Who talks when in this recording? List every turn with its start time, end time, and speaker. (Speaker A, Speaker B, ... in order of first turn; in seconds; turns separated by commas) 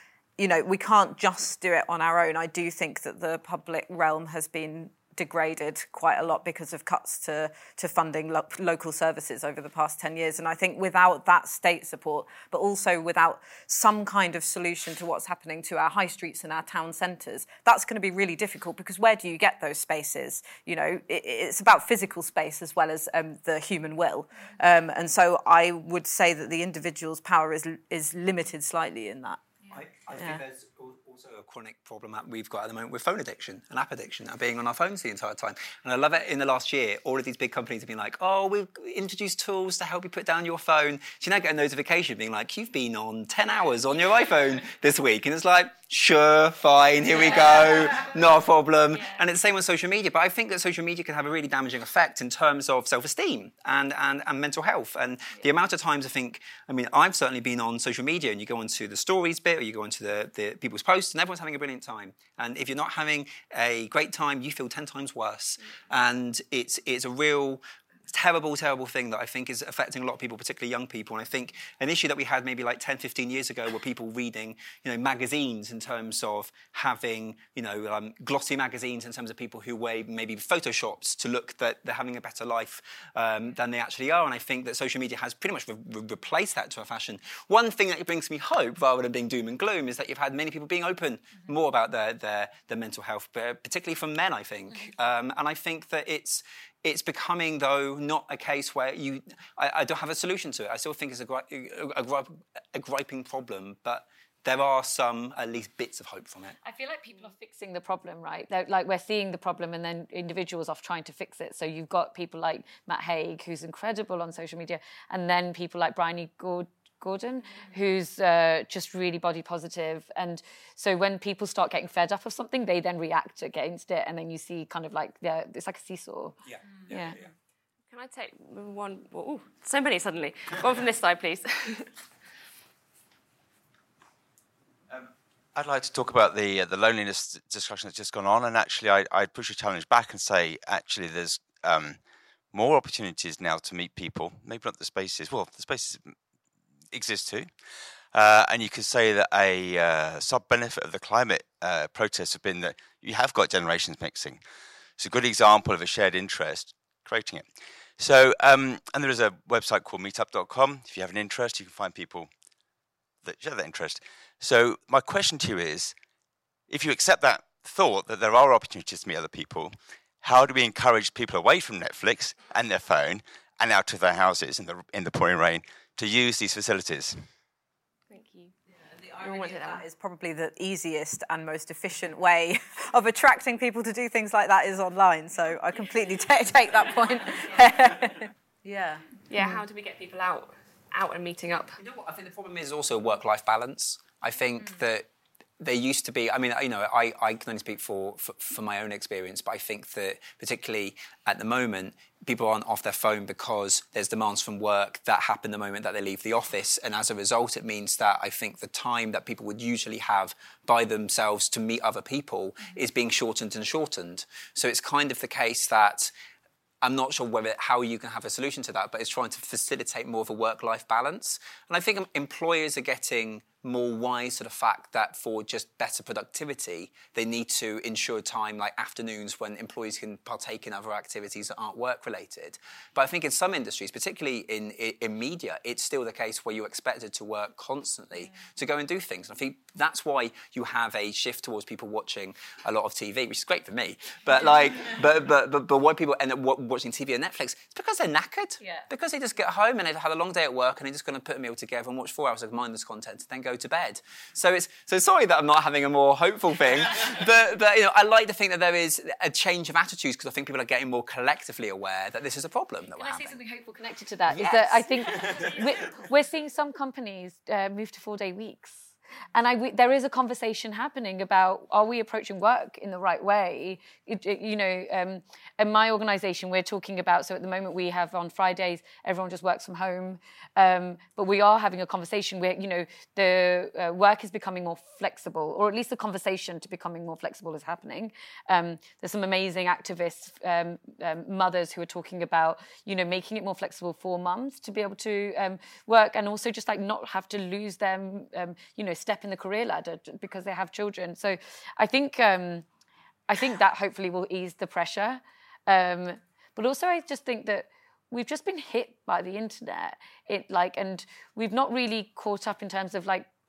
Speaker A: 0.4-29.4, Speaker B: 29.7-106.5, Speaker A: 30.1-30.4, Speaker C: 106.6-126.4, Speaker B: 126.5-127.3, Speaker C: 126.9-127.2, Speaker D: 127.9-131.9, Speaker E: 134.9-142.0, Speaker E: 142.5-146.1, Speaker E: 146.9-147.5, Speaker E: 148.1-154.4, Speaker E: 155.0-157.5, Speaker E: 158.0-162.3, Speaker E: 163.2-165.9, Speaker E: 166.7-177.2, Speaker D: 178.1-178.5, Speaker A: 178.8-189.0, Speaker D: 179.2-179.8, Speaker D: 189.3-191.7, Speaker B: 191.8-195.1, Speaker B: 195.6-216.1, Speaker B: 216.8-263.4, Speaker C: 262.9-302.6, Speaker B: 264.3-265.5, Speaker C: 303.3-313.3